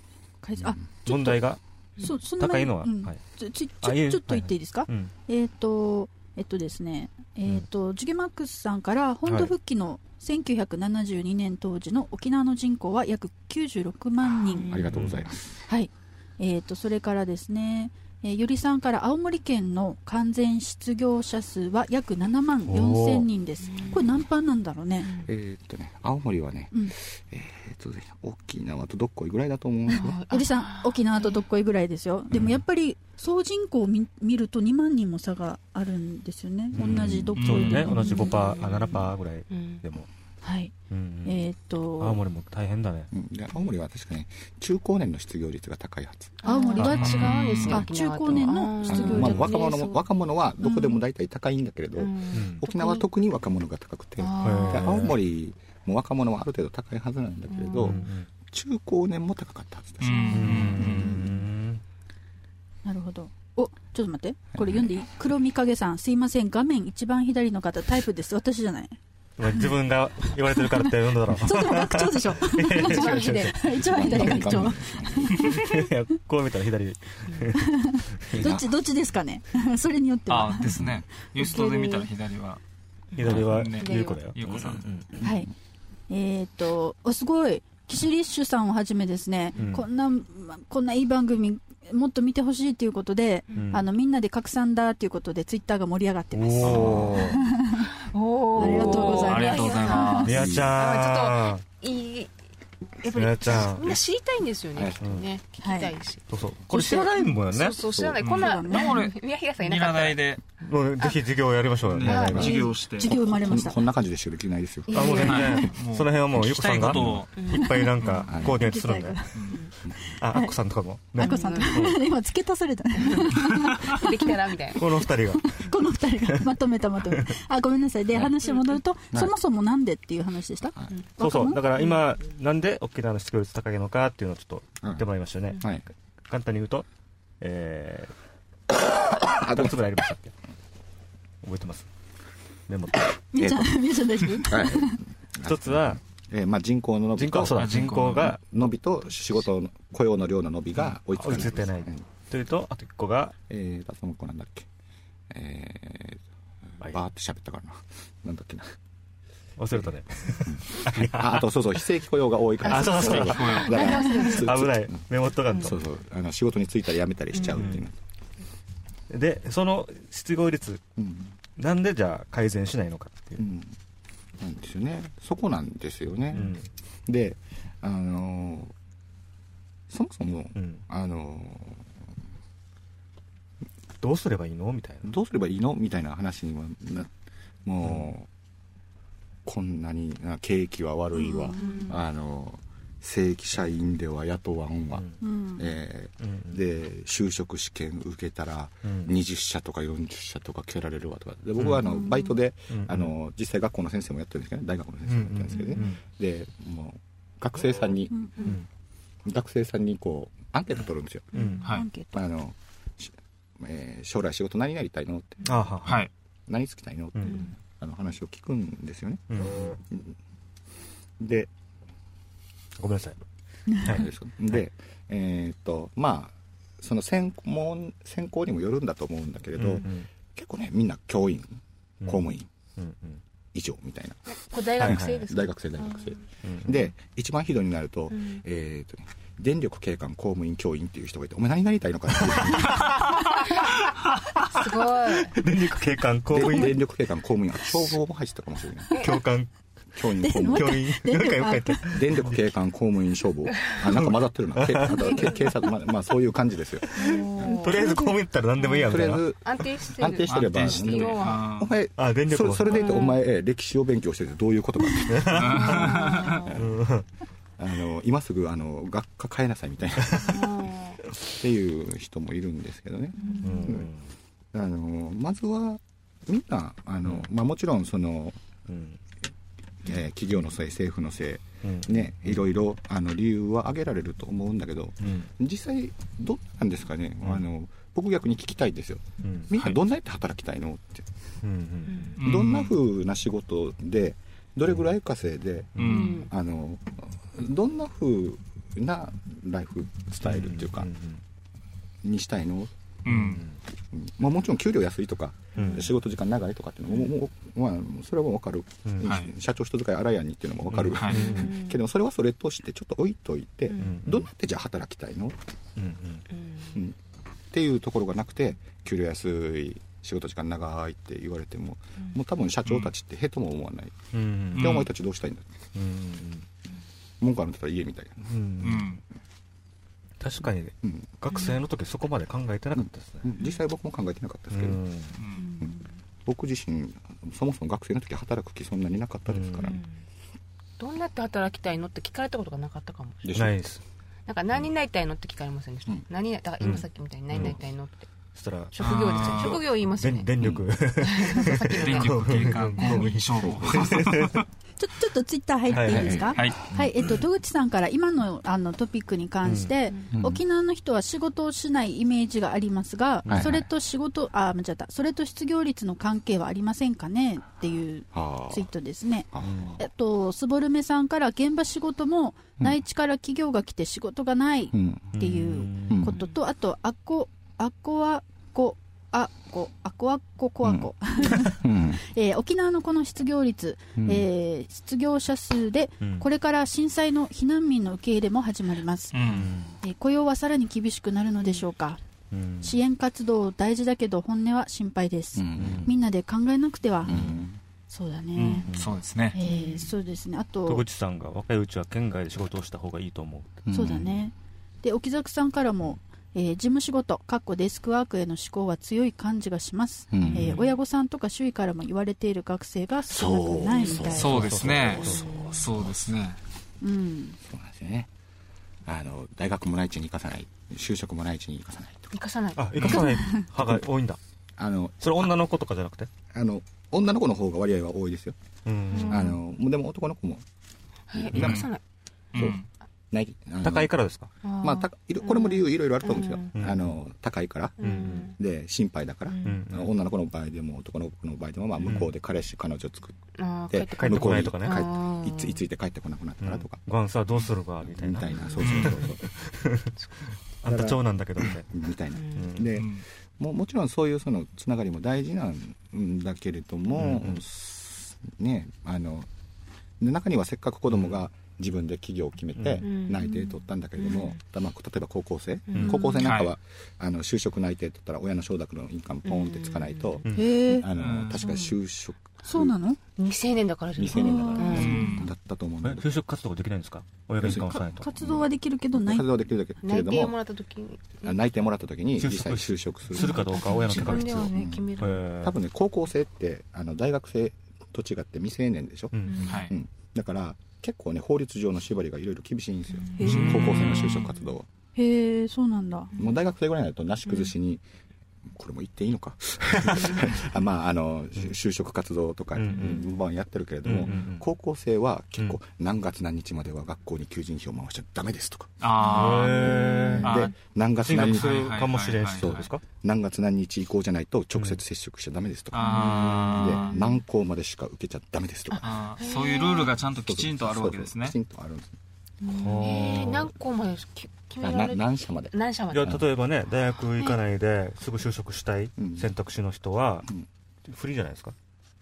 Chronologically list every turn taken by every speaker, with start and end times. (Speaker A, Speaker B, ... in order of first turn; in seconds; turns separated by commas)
Speaker A: 0.4-14.7, Speaker B: 1.0-3.2, Speaker B: 3.8-5.1, Speaker B: 9.2-9.5, Speaker C: 14.3-15.0, Speaker D: 14.7-15.6, Speaker B: 14.9-15.2, Speaker A: 15.7-25.1, Speaker B: 22.7-23.3, Speaker C: 23.6-24.2, Speaker C: 25.0-25.3, Speaker D: 25.2-30.2, Speaker C: 29.9-31.4, Speaker A: 30.3-38.5, Speaker B: 32.3-32.6, Speaker D: 36.7-37.3, Speaker B: 36.7-40.1, Speaker E: 37.4-37.9, Speaker C: 37.6-39.8, Speaker A: 40.4-40.7, Speaker B: 40.9-43.1, Speaker A: 41.2-42.2, Speaker D: 43.1-46.4, Speaker C: 46.4-50.1, Speaker A: 46.4-49.4, Speaker B: 46.8-47.4, Speaker E: 47.0-47.9, Speaker D: 48.9-60.7, Speaker A: 50.6-51.0, Speaker C: 52.0-53.1, Speaker B: 52.3-52.6, Speaker C: 54.2-55.2, Speaker B: 54.4-55.2, Speaker C: 57.5-58.0, Speaker B: 57.8-58.3, Speaker E: 60.0-61.1, Speaker C: 60.3-60.9, Speaker B: 60.3-61.8, Speaker A: 60.7-61.3, Speaker A: 62.8-69.0, Speaker D: 64.6-64.9, Speaker B: 69.4-74.8, Speaker A: 70.5-75.9, Speaker C: 72.8-74.5, Speaker D: 73.7-75.4, Speaker B: 75.4-78.5, Speaker C: 77.3-77.5, Speaker A: 77.5-80.8, Speaker D: 78.4-78.7, Speaker E: 80.3-82.6, Speaker D: 80.8-81.0, Speaker C: 81.4-81.9, Speaker A: 81.4-82.1, Speaker C: 83.1-84.3, Speaker B: 83.2-85.1, Speaker E: 83.2-84.8, Speaker A: 85.2-85.5, Speaker A: 86.1-97.8, Speaker B: 89.6-89.8, Speaker C: 93.5-93.8, Speaker B: 93.5-93.8, Speaker B: 96.3-97.4, Speaker D: 96.6-97.2, Speaker C: 98.1-102.4, Speaker A: 98.5-100.4, Speaker B: 98.6-99.0, Speaker E: 98.8-100.5, Speaker B: 100.2-101.6, Speaker D: 100.3-100.7, Speaker C: 103.0-110.2, Speaker A: 103.0-103.8, Speaker B: 103.1-103.9, Speaker D: 104.8-105.0, Speaker B: 105.0-105.3, Speaker A: 105.6-105.9, Speaker B: 106.3-107.8, Speaker A: 106.7-107.3, Speaker D: 107.9-108.2, Speaker E: 108.2-110.4, Speaker A: 108.3-109.0, Speaker B: 110.6-112.6, Speaker C: 111.0-111.2, Speaker E: 111.9-113.1, Speaker C: 112.0-112.7, Speaker D: 112.1-115.7, Speaker A: 112.1-113.8, Speaker C: 114.9-115.7, Speaker B: 114.9-119.4, Speaker E: 115.2-117.4, Speaker D: 116.7-117.2, Speaker C: 117.3-118.3, Speaker A: 117.6-119.4, Speaker D: 118.3-118.7, Speaker E: 119.3-119.6, Speaker B: 120.0-122.0, Speaker A: 120.3-120.5, Speaker A: 121.2-124.3, Speaker C: 121.2-122.0, Speaker C: 123.0-125.1, Speaker B: 124.7-125.5, Speaker A: 125.3-131.7, Speaker C: 128.4-128.7, Speaker B: 131.2-136.9, Speaker C: 131.7-132.1, Speaker D: 134.8-135.1, Speaker D: 135.6-135.8, Speaker B: 137.4-138.2, Speaker D: 139.2-139.7, Speaker B: 139.4-140.3, Speaker B: 141.4-141.9, Speaker B: 142.7-143.2, Speaker A: 143.3-145.0, Speaker D: 143.4-152.0, Speaker B: 145.4-146.0, Speaker B: 147.1-148.4, Speaker E: 147.6-148.3, Speaker B: 150.8-153.3, Speaker D: 153.5-154.7, Speaker D: 155.3-158.7, Speaker B: 159.6-161.8, Speaker D: 160.5-168.0, Speaker B: 162.6-165.8, Speaker C: 162.7-164.4, Speaker E: 163.1-163.9, Speaker A: 163.8-164.3, Speaker C: 165.4-165.7, Speaker C: 167.3-167.7, Speaker B: 167.5-167.8, Speaker B: 169.1-170.8, Speaker D: 171.0-171.3, Speaker B: 171.6-173.4, Speaker D: 173.4-173.7, Speaker D: 174.4-176.5, Speaker B: 176.3-176.7, Speaker D: 177.1-178.7, Speaker D: 179.9-181.8, Speaker B: 180.5-180.8, Speaker B: 184.0-185.1, Speaker D: 185.0-187.1, Speaker D: 187.6-188.3, Speaker B: 187.8-188.1, Speaker D: 189.4-208.5, Speaker A: 191.2-191.9, Speaker C: 191.5-192.0, Speaker A: 195.2-195.7, Speaker B: 196.2-196.6, Speaker B: 198.8-199.2, Speaker B: 201.6-202.0, Speaker A: 201.8-202.3, Speaker B: 202.7-203.1, Speaker B: 205.1-206.0, Speaker D: 209.2-211.3, Speaker B: 211.3-211.7, Speaker C: 211.3-211.8, Speaker A: 211.6-212.1, Speaker D: 212.1-215.5, Speaker B: 215.4-216.1, Speaker E: 215.8-216.1, Speaker D: 216.5-220.1, Speaker B: 217.2-217.4, Speaker C: 217.2-217.5, Speaker B: 219.3-219.8, Speaker D: 221.2-221.5, Speaker B: 222.8-223.2, Speaker B: 223.7-224.6, Speaker D: 223.8-232.5, Speaker B: 229.5-230.1, Speaker B: 232.0-233.2, Speaker D: 233.5-243.0, Speaker C: 234.5-236.2, Speaker B: 234.8-235.2, Speaker B: 236.4-236.9, Speaker C: 238.1-238.4, Speaker B: 242.2-243.0, Speaker B: 244.4-246.9, Speaker C: 244.5-245.4, Speaker D: 246.3-248.9, Speaker C: 246.4-246.7, Speaker C: 248.9-249.2, Speaker B: 248.9-249.5, Speaker D: 249.9-250.8, Speaker A: 250.2-251.9, Speaker B: 250.3-252.5, Speaker D: 251.9-257.8, Speaker C: 253.5-253.8, Speaker B: 253.9-255.5, Speaker C: 255.0-255.5, Speaker B: 256.9-259.2, Speaker C: 256.9-261.5, Speaker D: 258.9-266.6, Speaker E: 260.3-261.7, Speaker B: 262.0-263.1, Speaker C: 262.7-263.2, Speaker B: 265.1-267.1, Speaker E: 265.3-266.4, Speaker C: 265.6-266.6, Speaker D: 267.6-273.9, Speaker C: 270.2-271.0, Speaker C: 273.2-273.7, Speaker B: 273.4-274.1, Speaker D: 274.5-278.4, Speaker B: 278.7-279.0, Speaker D: 279.8-291.1, Speaker B: 281.6-282.5, Speaker B: 285.0-285.3, Speaker B: 289.2-289.5, Speaker B: 291.4-292.1, Speaker C: 291.9-292.2, Speaker E: 292.2-292.7, Speaker D: 292.2-300.9, Speaker B: 295.8-296.1, Speaker E: 295.8-296.2, Speaker C: 295.9-296.3, Speaker B: 300.2-301.2, Speaker D: 302.0-302.7, Speaker E: 303.0-303.4, Speaker B: 303.1-303.6, Speaker D: 303.9-315.4, Speaker B: 305.6-305.9, Speaker C: 305.6-305.9, Speaker B: 308.9-309.1, Speaker E: 309.0-309.3, Speaker B: 310.7-311.5, Speaker E: 310.9-311.3, Speaker C: 311.2-311.8, Speaker C: 313.7-314.0, Speaker B: 313.8-314.3, Speaker B: 315.8-316.2, Speaker C: 316.3-316.8, Speaker D: 317.5-323.9, Speaker E: 322.6-322.9, Speaker B: 324.1-324.8, Speaker D: 324.5-325.5, Speaker E: 324.5-324.9, Speaker B: 325.7-326.4, Speaker D: 327.2-328.8, Speaker B: 328.2-328.9, Speaker E: 328.6-329.0, Speaker B: 330.2-333.3, Speaker C: 331.3-331.6, Speaker D: 332.8-334.8, Speaker B: 334.5-335.2, Speaker E: 335.2-335.4, Speaker C: 335.4-335.9, Speaker D: 336.2-339.8, Speaker B: 339.3-339.8, Speaker C: 339.6-340.0, Speaker C: 340.8-343.3, Speaker D: 343.2-343.7, Speaker B: 343.3-343.8, Speaker C: 344.3-348.1, Speaker B: 346.6-347.6, Speaker B: 348.3-354.4, Speaker C: 348.7-350.4, Speaker E: 348.8-349.6, Speaker D: 350.4-350.7, Speaker C: 351.0-353.5, Speaker E: 351.6-354.4, Speaker A: 354.8-389.1, Speaker B: 355.7-356.6, Speaker D: 355.9-356.8, Speaker E: 356.4-356.6, Speaker B: 359.4-359.7, Speaker D: 360.1-360.4, Speaker B: 363.2-363.5, Speaker D: 363.3-363.6, Speaker D: 368.1-368.7, Speaker D: 369.3-369.8, Speaker B: 369.4-369.8, Speaker D: 374.7-375.1, Speaker B: 375.1-376.1, Speaker D: 375.9-376.2, Speaker C: 376.1-376.4, Speaker D: 380.6-382.0, Speaker D: 384.0-384.2, Speaker B: 386.0-386.2, Speaker E: 389.1-389.5, Speaker B: 389.2-389.8, Speaker A: 389.8-392.0, Speaker B: 392.3-392.8, Speaker A: 392.6-397.1, Speaker D: 395.3-395.9, Speaker B: 395.5-395.9, Speaker D: 397.0-397.6, Speaker B: 397.1-397.4, Speaker A: 397.9-398.7, Speaker E: 398.3-399.4, Speaker B: 398.7-399.0, Speaker A: 399.3-400.8, Speaker C: 399.4-399.9, Speaker B: 400.6-403.6, Speaker D: 403.6-404.1, Speaker A: 403.7-414.3, Speaker D: 410.1-410.6, Speaker B: 410.3-410.6, Speaker C: 410.4-410.7, Speaker D: 413.1-416.0, Speaker C: 413.7-414.3, Speaker E: 414.1-416.4, Speaker B: 414.2-415.3, Speaker C: 414.9-415.7, Speaker A: 416.8-417.4, Speaker D: 417.5-418.1, Speaker D: 418.8-422.1, Speaker C: 422.1-423.2, Speaker B: 422.6-424.2, Speaker E: 422.8-423.0, Speaker D: 424.6-425.3, Speaker B: 425.0-426.1, Speaker D: 426.3-428.4, Speaker B: 428.6-429.4, Speaker C: 428.9-429.4, Speaker D: 429.1-430.4, Speaker C: 431.1-431.8, Speaker D: 431.2-431.6, Speaker E: 431.3-431.7, Speaker E: 432.3-432.7, Speaker D: 433.1-433.9, Speaker B: 433.6-434.3, Speaker C: 434.4-436.6, Speaker D: 434.6-446.8, Speaker B: 436.5-436.9, Speaker C: 437.8-438.4, Speaker B: 437.8-438.3, Speaker C: 439.3-439.7, Speaker B: 439.4-439.9, Speaker B: 441.8-442.1, Speaker C: 443.3-445.6, Speaker B: 444.0-444.9, Speaker B: 446.4-449.9, Speaker D: 447.8-449.2, Speaker C: 448.2-449.2, Speaker E: 448.6-449.0, Speaker C: 450.0-450.3, Speaker B: 450.6-451.7, Speaker D: 450.6-459.3, Speaker C: 452.1-452.6, Speaker B: 452.3-452.8, Speaker E: 452.8-453.0, Speaker B: 456.9-457.4, Speaker D: 460.0-472.7, Speaker B: 460.9-461.2, Speaker B: 462.5-462.9, Speaker C: 462.8-464.4, Speaker C: 465.7-466.2, Speaker E: 466.2-466.5, Speaker C: 469.2-470.4, Speaker B: 470.2-470.6, Speaker A: 470.3-470.9, Speaker E: 470.9-471.5, Speaker C: 471.3-471.8, Speaker A: 472.4-473.0, Speaker C: 473.2-475.3, Speaker D: 474.0-476.1, Speaker A: 474.1-475.1, Speaker E: 474.6-475.3, Speaker B: 475.8-478.1, Speaker D: 477.4-480.4, Speaker A: 477.7-479.2, Speaker C: 479.8-481.4, Speaker D: 481.2-494.7, Speaker B: 482.2-485.6, Speaker C: 483.1-485.3, Speaker B: 489.1-489.6, Speaker C: 489.2-489.7, Speaker E: 489.5-489.7, Speaker C: 493.0-494.2, Speaker A: 493.2-493.9, Speaker B: 493.2-494.2, Speaker E: 493.6-494.2, Speaker A: 494.9-496.1, Speaker D: 496.2-497.8, Speaker C: 497.2-497.5, Speaker D: 498.5-519.0, Speaker B: 499.9-500.2, Speaker B: 502.5-503.1, Speaker B: 503.8-504.5, Speaker E: 508.8-510.5, Speaker C: 509.0-510.3, Speaker B: 509.1-510.3, Speaker B: 511.0-512.8, Speaker E: 511.1-512.7, Speaker B: 514.5-514.8, Speaker E: 515.7-516.9, Speaker C: 515.8-517.2, Speaker B: 515.9-516.8, Speaker E: 518.8-521.4, Speaker C: 519.2-520.0, Speaker D: 520.1-521.9, Speaker C: 522.4-526.2, Speaker B: 522.5-523.5, Speaker D: 523.0-523.3, Speaker D: 524.6-526.3, Speaker B: 525.9-530.3, Speaker D: 529.0-529.3, Speaker B: 530.8-531.5